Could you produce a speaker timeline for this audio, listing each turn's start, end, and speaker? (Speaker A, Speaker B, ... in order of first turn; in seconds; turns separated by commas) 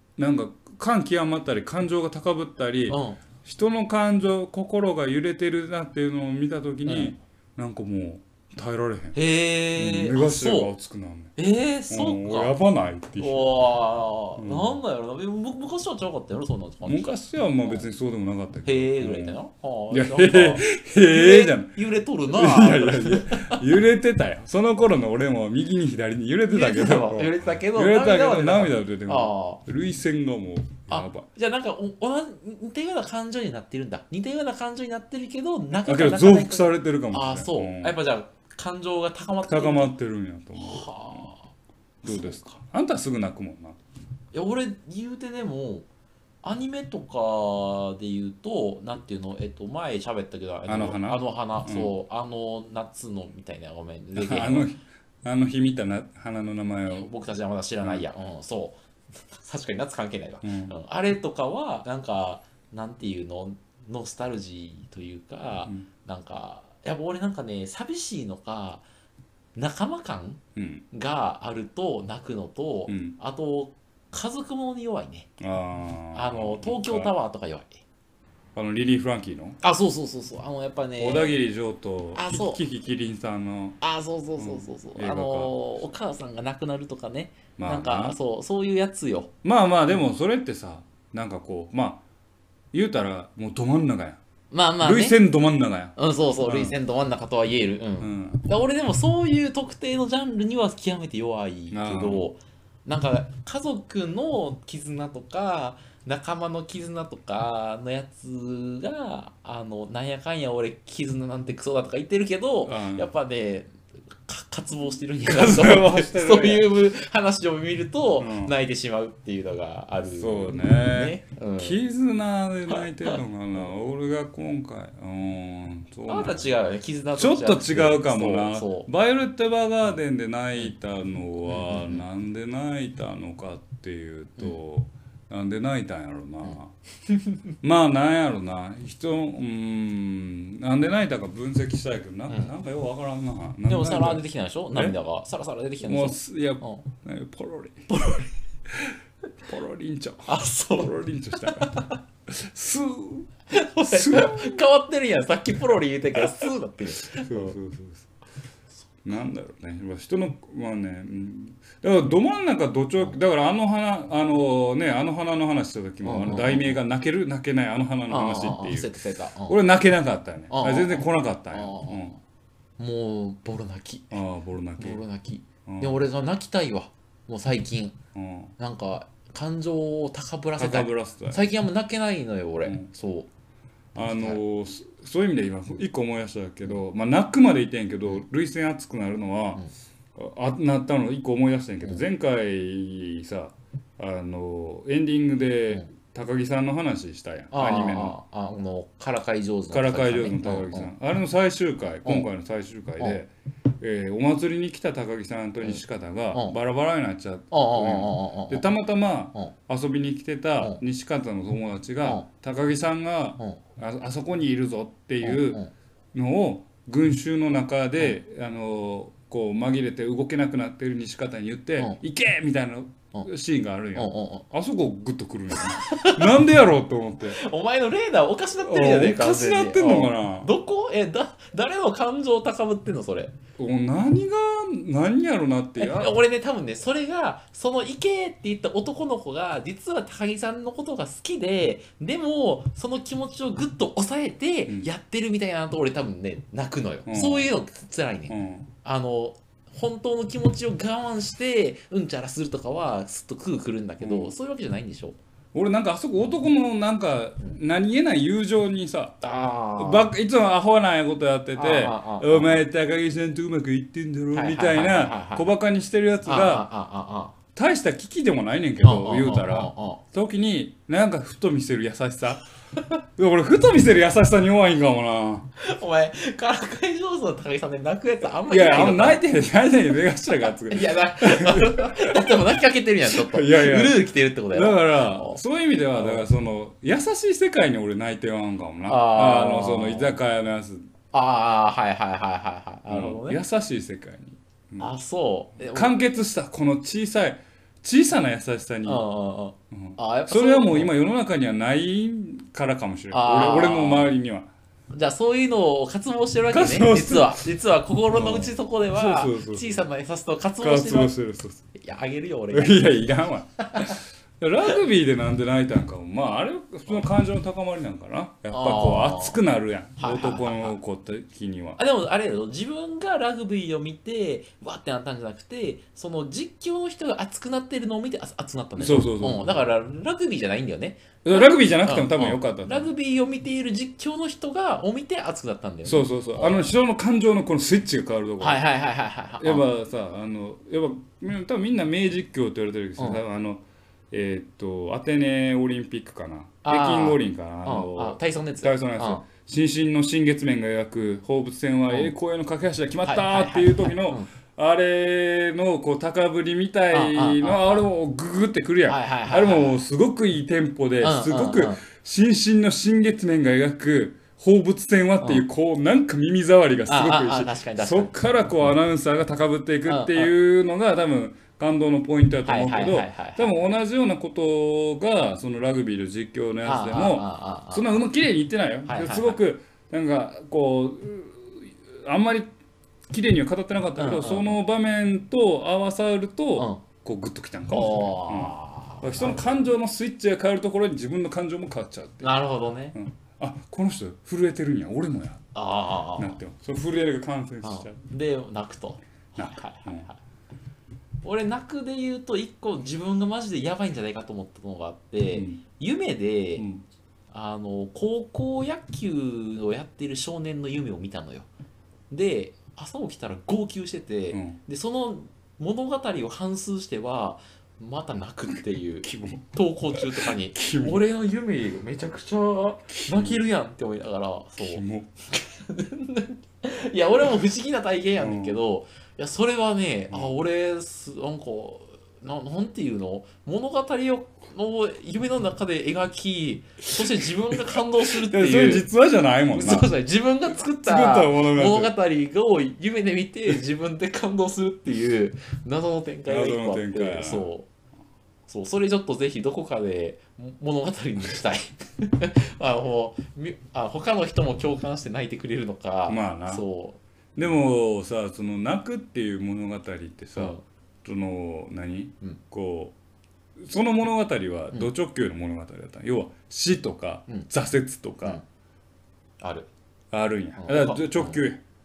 Speaker A: 0.2-9.2, Speaker B: 2.9-3.2, Speaker B: 6.8-7.2, Speaker B: 9.1-10.7, Speaker A: 9.8-11.3, Speaker B: 11.4-12.5, Speaker A: 11.9-13.5, Speaker B: 13.2-17.9, Speaker A: 14.4-14.8, Speaker A: 16.8-31.3, Speaker B: 18.6-23.6, Speaker B: 26.5-29.6, Speaker B: 30.9-39.9, Speaker A: 35.8-38.0, Speaker A: 39.4-41.3, Speaker B: 40.5-41.5, Speaker A: 42.0-43.8, Speaker B: 42.0-42.6, Speaker B: 44.3-45.9, Speaker B: 46.4-54.7, Speaker A: 50.7-51.9, Speaker A: 54.1-57.1, Speaker B: 56.9-58.8, Speaker B: 59.3-68.8, Speaker A: 60.4-60.7, Speaker B: 69.5-75.3, Speaker A: 70.5-70.8, Speaker A: 72.9-73.2, Speaker A: 75.4-77.1, Speaker B: 76.1-77.8, Speaker A: 78.5-79.6, Speaker B: 79.6-81.4, Speaker A: 81.0-83.8, Speaker B: 82.1-82.6, Speaker B: 83.8-89.3, Speaker A: 84.4-85.6, Speaker A: 87.6-88.2, Speaker A: 89.4-92.0, Speaker A: 92.7-94.2, Speaker B: 94.5-95.2, Speaker A: 94.8-96.8, Speaker B: 96.0-121.8, Speaker A: 98.0-98.4, Speaker A: 101.7-102.3, Speaker A: 112.6-113.1, Speaker A: 115.2-116.7, Speaker A: 118.2-118.5, Speaker A: 120.1-126.5, Speaker B: 122.7-123.2, Speaker B: 126.1-128.9, Speaker A: 127.2-136.7, Speaker B: 131.5-132.0, Speaker A: 137.6-144.9, Speaker B: 143.7-146.8, Speaker A: 145.8-154.6, Speaker B: 147.9-148.2, Speaker B: 150.2-152.0, Speaker B: 153.5-157.6, Speaker A: 156.1-158.1, Speaker A: 159.0-172.2, Speaker B: 166.0-166.8, Speaker B: 168.1-169.6, Speaker B: 170.5-172.2, Speaker B: 172.8-174.2, Speaker A: 174.1-175.0, Speaker B: 174.8-178.0, Speaker A: 175.7-176.0, Speaker A: 178.1-178.5, Speaker B: 178.6-183.3, Speaker A: 180.6-181.5, Speaker A: 182.6-182.9, Speaker A: 183.9-198.2, Speaker B: 183.9-184.4, Speaker B: 197.5-200.9, Speaker A: 199.7-215.6, Speaker B: 206.3-206.6, Speaker B: 207.5-208.6, Speaker B: 215.2-215.7, Speaker A: 216.1-227.4, Speaker B: 223.9-224.4, Speaker B: 225.6-226.4, Speaker B: 227.3-233.3, Speaker A: 228.6-230.5, Speaker A: 233.6-236.2, Speaker B: 235.8-255.2, Speaker A: 247.1-247.5, Speaker A: 248.3-248.7, Speaker A: 254.0-254.3, Speaker A: 255.5-259.2, Speaker B: 259.2-260.1, Speaker A: 259.8-266.7, Speaker B: 261.5-262.6, Speaker B: 264.3-265.5, Speaker B: 266.2-267.4, Speaker A: 267.5-272.4, Speaker B: 268.8-270.0, Speaker A: 273.1-275.5, Speaker B: 275.6-279.2, Speaker A: 278.4-282.6, Speaker B: 280.7-285.4, Speaker A: 283.1-290.9, Speaker B: 285.9-286.2, Speaker B: 288.9-290.2, Speaker B: 291.1-293.4, Speaker A: 292.9-294.9, Speaker B: 294.8-295.9, Speaker A: 295.7-299.0, Speaker B: 298.8-300.9, Speaker A: 299.7-304.5, Speaker B: 303.1-304.1, Speaker B: 304.9-311.1, Speaker A: 306.5-307.4, Speaker A: 308.1-309.8, Speaker A: 310.6-311.6, Speaker B: 311.7-314.0, Speaker A: 312.5-321.8, Speaker B: 318.5-319.4, Speaker B: 320.0-320.8, Speaker B: 321.8-336.7, Speaker A: 328.8-329.7, Speaker A: 331.2-332.9, Speaker A: 335.8-338.6, Speaker B: 338.4-339.6, Speaker A: 339.4-382.5, Speaker B: 346.6-349.2, Speaker B: 353.0-354.3, Speaker B: 356.9-357.8, Speaker B: 358.9-359.8, Speaker B: 361.0-361.8, Speaker B: 366.9-368.1, Speaker B: 369.9-370.3, Speaker B: 372.4-373.6, Speaker B: 376.6-378.0, Speaker B: 378.9-379.4, Speaker A: 383.1-392.3, Speaker B: 384.0-384.6, Speaker B: 386.6-386.8, Speaker B: 387.7-389.5, Speaker B: 392.2-393.0, Speaker A: 392.9-395.5, Speaker B: 395.5-396.4, Speaker A: 396.1-398.0, Speaker B: 397.6-400.2, Speaker A: 399.4-400.1, Speaker B: 401.2-406.6, Speaker A: 405.3-405.6, Speaker A: 406.6-406.8, Speaker B: 407.3-411.5, Speaker B: 412.1-438.9, Speaker A: 414.3-414.6, Speaker A: 419.0-421.0, Speaker A: 422.9-423.4, Speaker A: 424.6-425.1, Speaker A: 428.2-428.6, Speaker A: 437.0-439.9, Speaker B: 439.5-447.7, Speaker A: 440.8-441.9, Speaker A: 446.3-447.5, Speaker B: 448.5-457.0, Speaker A: 456.1-456.6, Speaker A: 457.3-462.9, Speaker B: 460.4-460.6, Speaker A: 463.6-468.4, Speaker B: 469.4-469.7, Speaker A: 470.1-471.6, Speaker B: 470.6-471.4